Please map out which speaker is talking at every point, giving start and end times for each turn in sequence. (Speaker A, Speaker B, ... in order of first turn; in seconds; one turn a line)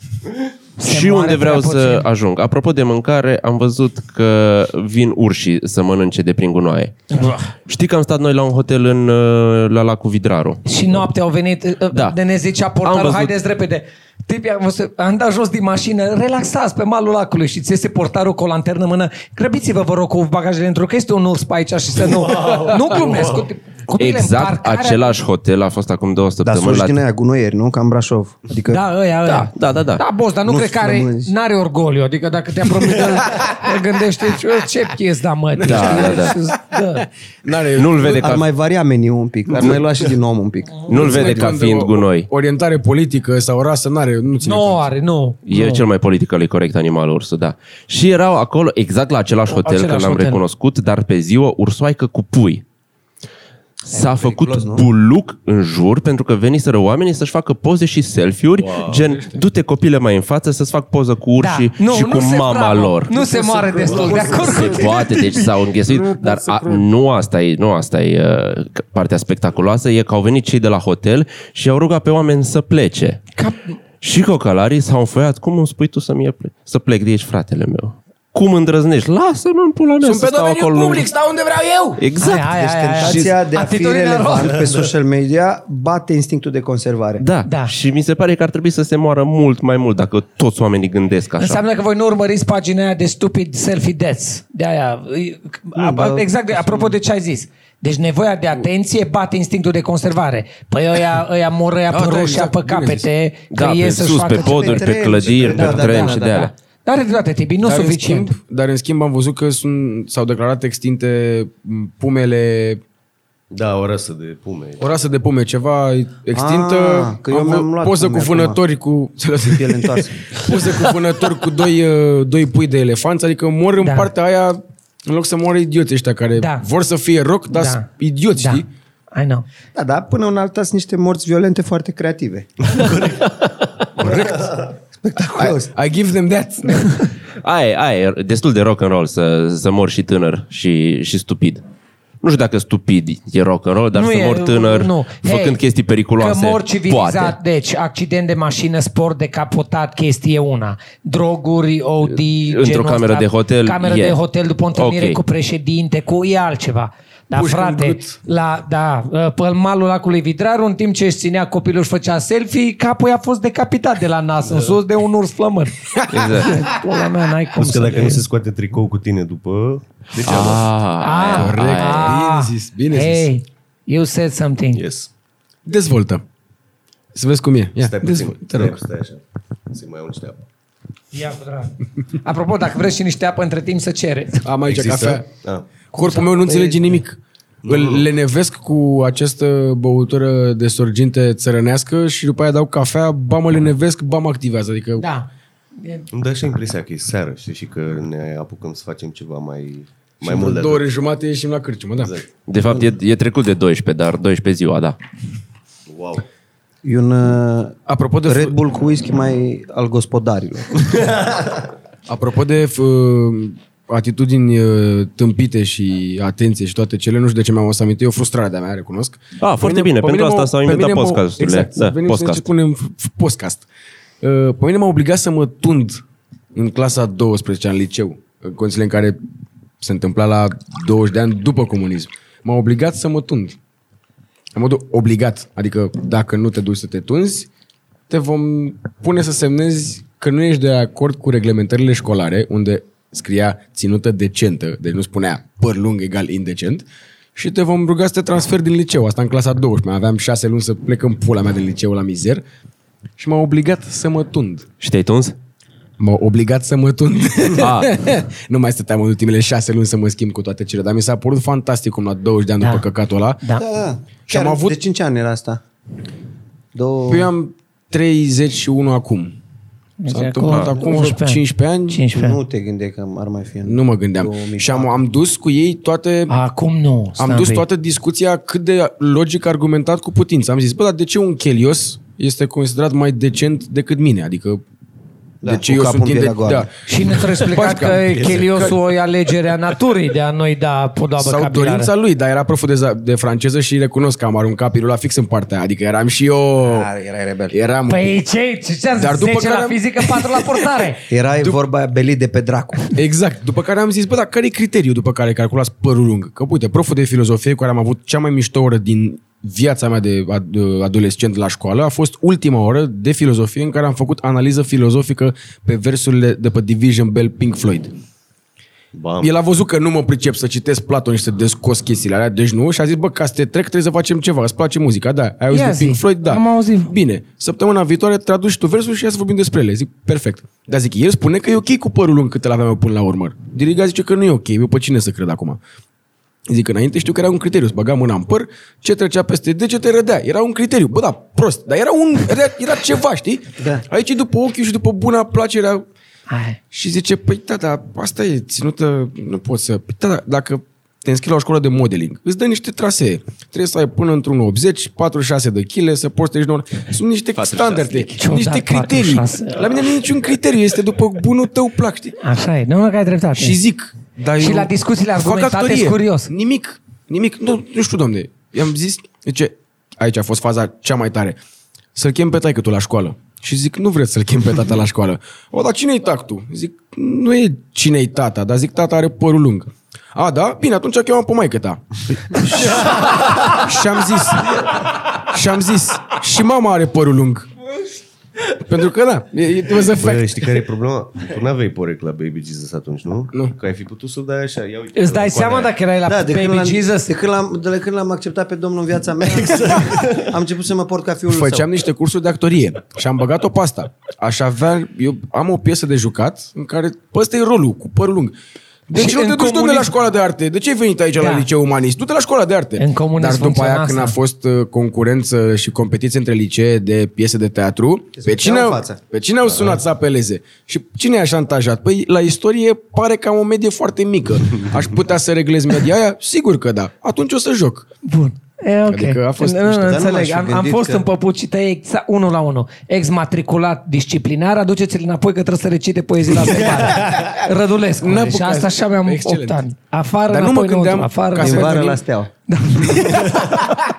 Speaker A: 0.8-2.0
Speaker B: 0.8-7.1
Speaker A: 7.1-7.5
Speaker B: 7.7-10.7
Speaker A: 10.7-25.1
Speaker B: 12.8-13.3
Speaker C: 22.3-23.3
Speaker B: 24.0-27.0
Speaker D: 26.4-28.8
Speaker A: 28.7-37.1
Speaker B: 29.2-30.0
Speaker D: 30.4-31.3
Speaker E: 33.1-33.4
Speaker E: 35.5-36.4
Speaker B: 35.6-36.3
Speaker E: 37.4-38.4
Speaker B: 37.7-38.4
Speaker D: 38.0-41.3
Speaker E: 39.5-39.8
Speaker B: 40.9-42.3
Speaker E: 40.9-44.8
Speaker A: 44.4-45.8
Speaker B: 45.5-52.6
Speaker A: 49.5-50.4
Speaker B: 53.8-63.1
Speaker D: 53.9-54.9
Speaker C: 58.6-58.9
Speaker E: 58.9-59.4
Speaker A: 61.4-65.5
Speaker D: 63.3-64.9
Speaker C: 63.5-64.8
Speaker B: 64.3-73.3
Speaker E: 65.9-66.8
Speaker A: 73.3-73.8
Speaker B: 74.0-81.0
Speaker E: 80.0-82.0
Speaker B: 82.0-83.3
Speaker A: 82.2-84.6
Speaker D: 82.2-87.2
Speaker B: 87.2-91.6
Speaker A: 87.5-87.7
Speaker A: 91.4-104.9
Speaker D: 95.7-96.9
Speaker E: 101.9-103.1
Speaker B: 103.5-106.5
Speaker D: 104.3-106.5
Speaker C: 105.3-105.8
Speaker A: 105.6-108.3
Speaker E: 107.6-112.8
Speaker C: 113.5-114.9
Speaker E: 114.8-128.7
Speaker D: 116.3-118.6
Speaker D: 119.4-121.1
Speaker A: 123.8-124.1
Speaker A: 126.4-126.7
Speaker A: 127.5-129.4
Speaker D: 129.7-132.8
Speaker C: 132.7-133.2
Speaker B: 133.0-133.5
Speaker E: 134.0-134.5
Speaker D: 134.0-135.7
Speaker E: 135.3-137.1
Speaker B: 137.4-141.6
Speaker B: 142.2-147.3
Speaker A: 143.9-145.6
Speaker A: 146.2-168.2
Speaker B: 152.5-154.2
Speaker B: 154.7-155.2
Speaker E: 157.3-158.2
Speaker E: 165.9-166.7
Speaker B: 166.1-166.6
Speaker C: 167.5-170.7
Speaker B: 170.2-172.2
Speaker A: 171.0-174.8
Speaker E: 171.3-173.3
Speaker C: 174.7-175.1
Speaker E: 175.6-176.2
Speaker E: 177.1-178.8
Speaker C: 177.8-180.4
Speaker A: 181.1-184.4
Speaker E: 184.4-185.3
Speaker C: 184.7-185.7
Speaker E: 185.9-195.0
Speaker A: 185.9-186.9
Speaker C: 187.6-188.1
Speaker A: 195.0-196.1
Speaker C: 196.1-200.8
Speaker E: 200.2-202.1
Speaker C: 202.0-202.3
Speaker B: 202.5-204.9
Speaker C: 205.9-206.2
Speaker D: 206.8-211.3
Speaker E: 207.9-208.6
Speaker E: 212.1-223.6
Speaker B: 219.4-222.4
Speaker E: 224.2-226.0
Speaker E: 226.5-229.2
Speaker E: 229.8-233.6
Speaker E: 234.5-237.5
Speaker E: 238.1-252.4
Speaker E: 253.2-254.7
Speaker B: 254.8-255.3
Speaker E: 256.0-263.4
Speaker B: 257.6-258.0
Speaker A: 262.6-262.9
Speaker D: 263.6-265.6
Speaker E: 264.3-264.7
Speaker D: 266.7-267.3
Speaker E: 267.1-269.3
Speaker A: 270.0-272.4
Speaker E: 270.1-272.0
Speaker D: 272.1-275.0
Speaker E: 273.6-276.3
Speaker A: 276.3-277.6
Speaker E: 277.2-284.6
Speaker D: 285.4-286.7
Speaker E: 285.4-288.8
Speaker A: 286.9-291.9
Speaker E: 291.2-296.9
Speaker D: 296.6-297.5
Speaker E: 297.5-298.1
Speaker A: 297.9-301.1
Speaker E: 299.0-300.6
Speaker D: 301.1-302.9
Speaker E: 302.9-317.9
Speaker C: 318.9-319.3
Speaker E: 319.2-335.6
Speaker A: 325.5-326.9
Speaker E: 336.5-345.8
Speaker D: 343.6-343.8
Speaker A: 346.3-346.6
Speaker E: 346.7-362.2
Speaker B: 357.4-358.1
Speaker A: 358.2-359.7
Speaker A: 362.2-363.6
Speaker E: 363.3-371.4
Speaker A: 364.4-366.3
Speaker E: 371.9-387.5
Speaker E: 388.5-390.6
Speaker C: 389.9-395.7
Speaker A: 394.9-397.1
Speaker D: 396.0-401.7
Speaker C: 399.4-400.2
Speaker E: 401.3-408.3
Speaker E: 408.9-427.9
Speaker A: 408.9-409.9
Speaker A: 411.2-411.5
Speaker A: 412.8-414.1
Speaker D: 418.2-419.0
Speaker A: 428.0-441.9
Speaker E: 428.9-429.9
Speaker D: 429.7-431.0
Speaker E: 438.0-439.6
Speaker E: 440.3-442.0
Speaker D: 441.4-442.3
Speaker A: 442.5-443.5